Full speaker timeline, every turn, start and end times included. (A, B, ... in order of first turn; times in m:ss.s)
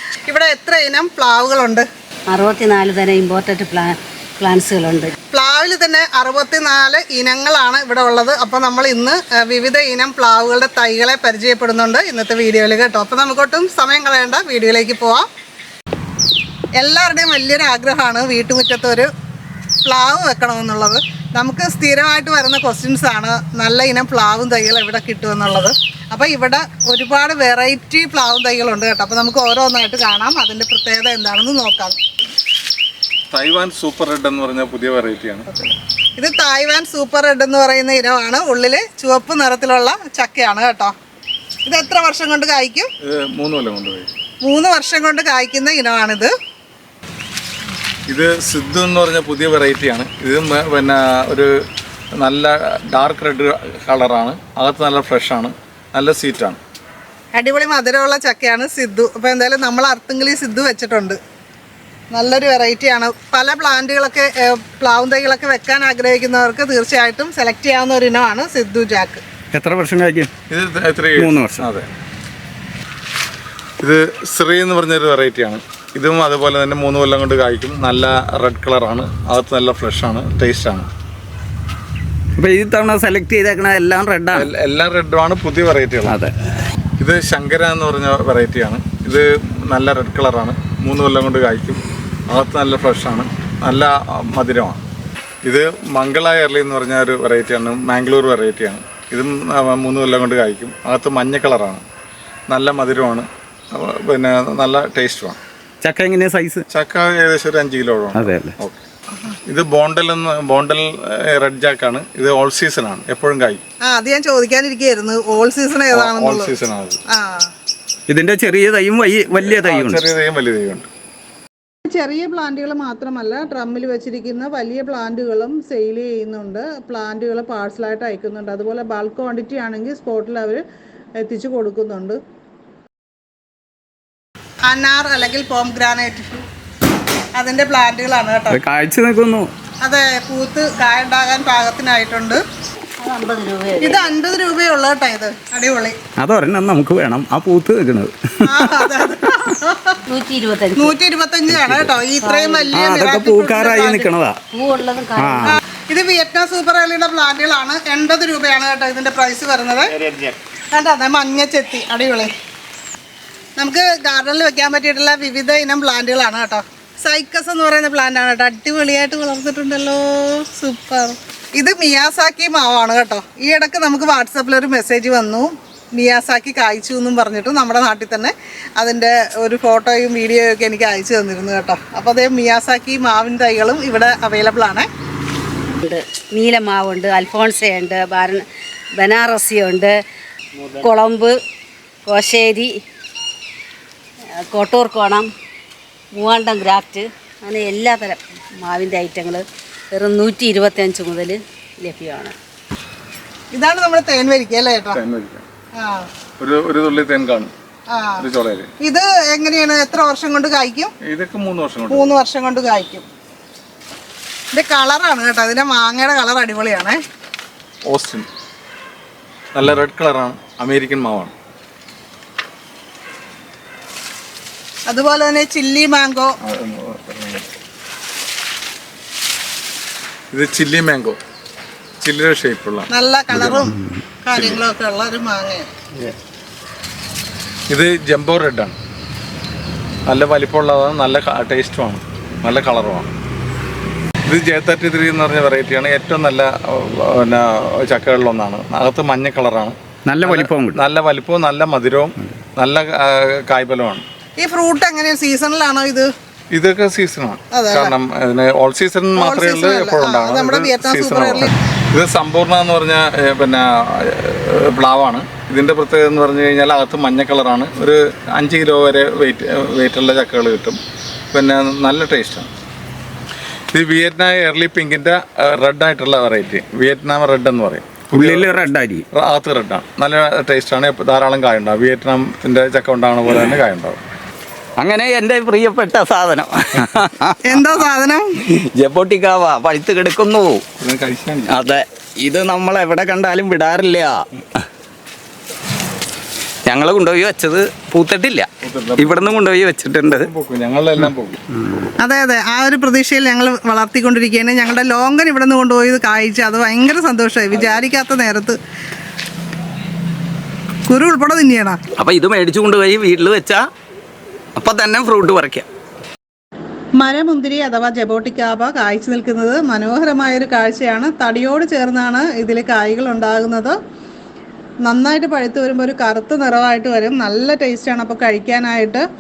0:00.3-0:01.9 A
0:02.3-0:05.2 B
0:05.3-0:15.2 A
0:16.8-0:19.1 A
0:19.8-0:32.0 A
0:33.3-0:35.6 C
0:36.2-0:40.9 A
0:41.7-0:42.9 A
0:43.0-0:44.1 C
0:44.4-0:46.3 A
0:48.1-0:51.5 C
0:52.2-0:56.6 C
0:57.4-1:01.2 A
1:02.1-1:09.2 A
1:09.5-1:10.3 D
1:10.5-1:11.9 C
1:11.2-1:11.7 D
1:13.8-1:20.9 C
1:22.4-1:24.5 D
1:24.3-1:26.2 C
1:26.1-1:26.3 D
1:27.0-1:34.8 C
1:35.4-1:41.8 C
1:42.5-1:45.4 C
1:45.8-1:46.6 D
1:46.7-1:48.8 C
1:48.2-1:48.5 D
1:49.5-1:53.6 C
1:53.8-1:56.5 A
1:55.9-1:57.0 C
1:57.1-1:57.5 A
1:58.1-2:00.1 D
1:59.4-2:00.9 C
2:01.8-2:10.6 A
2:11.2-2:12.2 A
2:14.7-2:16.4 A
2:17.4-2:18.6 A
2:18.5-2:19.5 D
2:19.8-2:22.4 A
2:23.0-2:24.1 B
2:23.8-2:26.0 A
2:26.2-2:28.9 D
2:28.4-2:30.0 A
2:30.1-2:31.0 B
2:30.8-2:34.1 A
2:31.5-2:32.0 D
2:32.2-2:33.0 B
2:32.7-2:34.4 D
2:34.5-2:35.6 B
2:35.2-2:35.6 D
2:35.5-2:40.0 A
2:40.7-2:42.3 A
2:43.6-3:04.9 A
3:05.8-3:08.4 B
3:09.0-3:09.9 B
3:10.7-3:11.3 B
3:12.1-3:12.7 B
3:14.4-3:15.3 B
3:16.1-3:22.4 B
3:23.5-3:25.0 A
3:24.9-3:25.4 C
3:25.8-3:26.1 A
3:26.4-3:27.5 C
3:27.9-3:28.2 A
3:28.2-3:28.7 C
3:28.8-3:30.9 A
3:31.0-3:32.2 C
3:31.9-3:33.0 A
3:34.5-3:37.0 A
3:37.9-3:38.3 C
3:39.5-3:41.3 C
3:44.9-3:46.3 A
3:46.4-3:47.4 C
3:50.3-3:51.2 C
3:52.0-3:53.7 C
3:52.9-3:55.7 A
3:54.3-3:54.6 C
3:57.7-3:58.8 C
4:00.1-4:03.1 C
4:04.3-4:14.0 C
4:10.1-4:10.8 D
4:14.4-4:16.1 A
4:16.5-4:30.8 C
4:17.5-4:18.0 A
4:19.2-4:21.5 A
4:31.3-4:32.5 C
4:33.7-4:38.5 C
4:38.1-4:39.1 D
4:39.1-4:44.0 C
4:44.8-4:47.8 D
4:47.4-4:48.4 A
4:48.5-4:50.6 D
4:50.8-4:51.5 C
4:51.5-4:54.4 D
4:56.7-5:00.3 D
4:58.6-4:59.4 C
5:00.1-5:01.4 C
5:01.6-5:01.9 D
5:02.0-5:08.6 A
5:10.9-5:11.8 A
5:12.0-5:13.6 D
5:14.6-5:15.7 D
5:17.0-5:23.8 A
5:24.8-5:29.0 A